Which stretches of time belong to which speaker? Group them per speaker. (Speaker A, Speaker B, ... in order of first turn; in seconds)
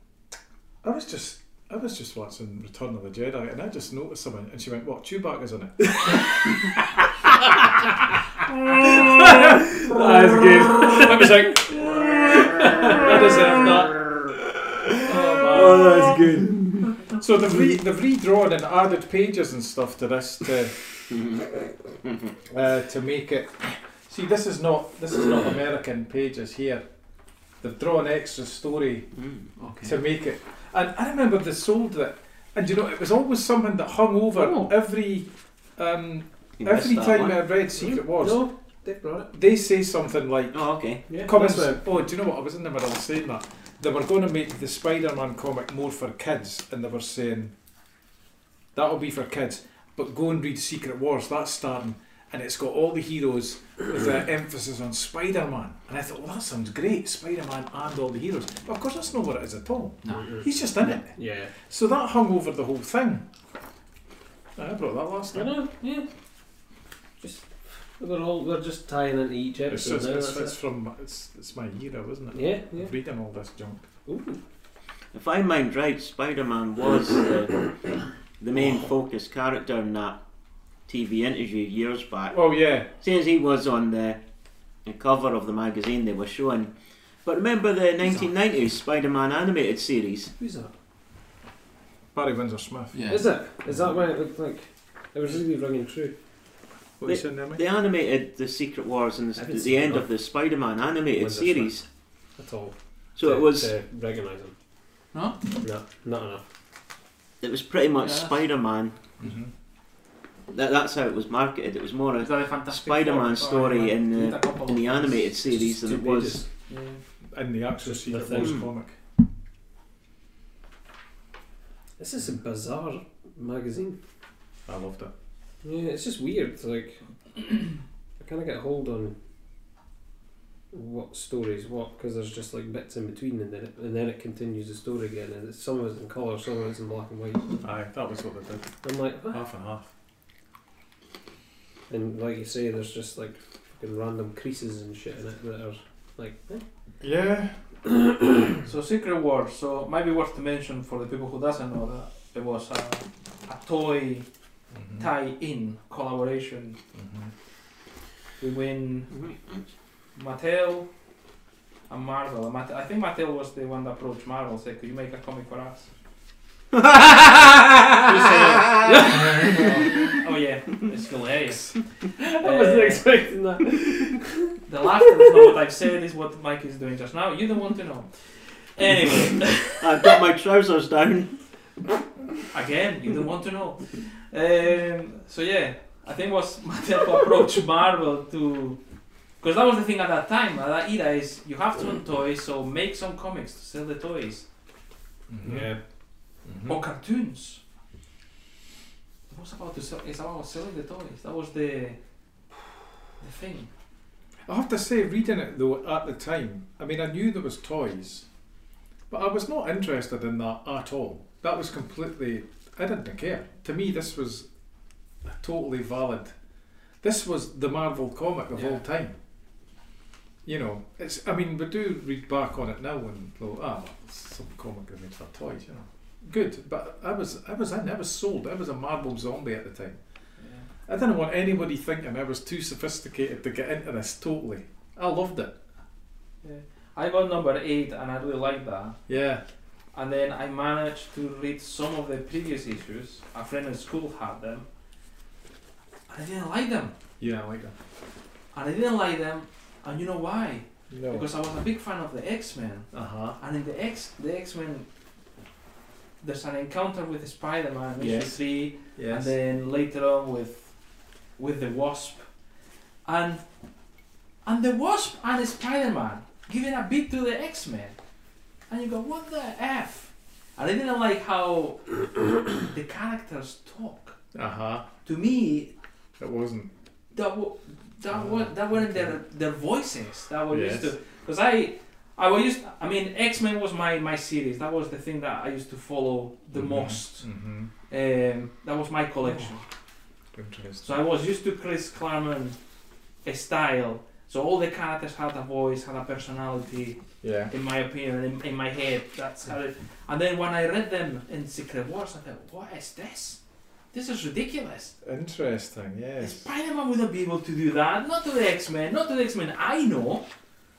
Speaker A: 0.8-6.2, 9.0-9.5, 10.8-11.8, 12.8-14.2, 15.0-16.2, 17.1-20.9, 22.4-26.9, 27.6-29.1, 29.8-38.4, 39.3-47.5, 48.7-63.2, 64.5-65.5, 69.7-73.8, 82.3-82.9, 92.1-93.1, 93.7-93.9, 97.0-97.6, 109.2-109.5, 117.3-118.9, 124.7-125.1, 137.6-139.9, 147.0-147.8, 154.7-155.1, 156.9-157.3, 169.4-169.8, 195.3-195.7, 196.4-196.8, 204.4-208.2, 209.1-214.5, 215.2-216.3, 217.0-219.1, 220.4-230.0, 230.9-235.5, 239.1-239.4, 247.2-247.8, 250.9-251.3, 252.9-253.4, 258.9-259.3, 274.3-274.9, 276.2-276.7, 278.1-279.2, 280.5-280.9, 286.5-287.7, 290.3-290.9, 297.2-297.5, 305.0-306.5
Speaker B: 8.8-13.4, 15.6-16.4, 34.4-34.7, 37.8-39.3, 41.1-41.8, 60.1-61.5, 65.3-66.1, 67.2-70.5, 72.3-72.9, 74.0-74.4, 90.4-90.7, 93.1-96.1, 99.3-100.1, 101.2-101.8, 102.3-104.5, 105.6-106.4, 115.4-116.5, 117.8-118.6, 122.0-124.0, 125.6-127.0, 128.2-129.1, 130.7-137.6, 138.8-139.4, 141.9-146.6, 147.8-148.1, 168.0-169.8, 172.2-174.5, 195.4-195.8, 258.0-258.3
Speaker C: 15.5-16.9, 21.1-21.4, 36.6-37.4, 40.5-41.0, 75.1-80.2, 80.9-84.2, 84.8-86.7, 87.2-90.3, 97.0-101.8, 103.1-103.7, 107.4-109.0, 110.5-116.4, 118.4-118.7, 179.8-181.3
Speaker D: 29.6-29.9, 92.9-93.2, 105.1-105.4, 108.0-108.4, 112.2-115.3, 116.7-117.0, 148.6-154.3, 155.0-156.8, 158.4-159.3, 160.1-160.9, 161.9-165.9, 169.1-173.2, 174.6-180.1, 182.5-188.8, 189.4-194.5, 196.6-197.6, 199.3-202.0, 203.2-203.7, 230.4-230.7, 236.4-239.0, 239.9-244.7, 246.1-246.9, 248.5-254.9, 256.2-260.7, 261.4-262.3, 263.0-263.4, 264.4-267.9, 268.7-274.2, 275.0-275.7, 277.1-287.3, 287.9-289.6, 290.8-292.6, 293.2-303.4, 303.9-304.9, 306.2-310.3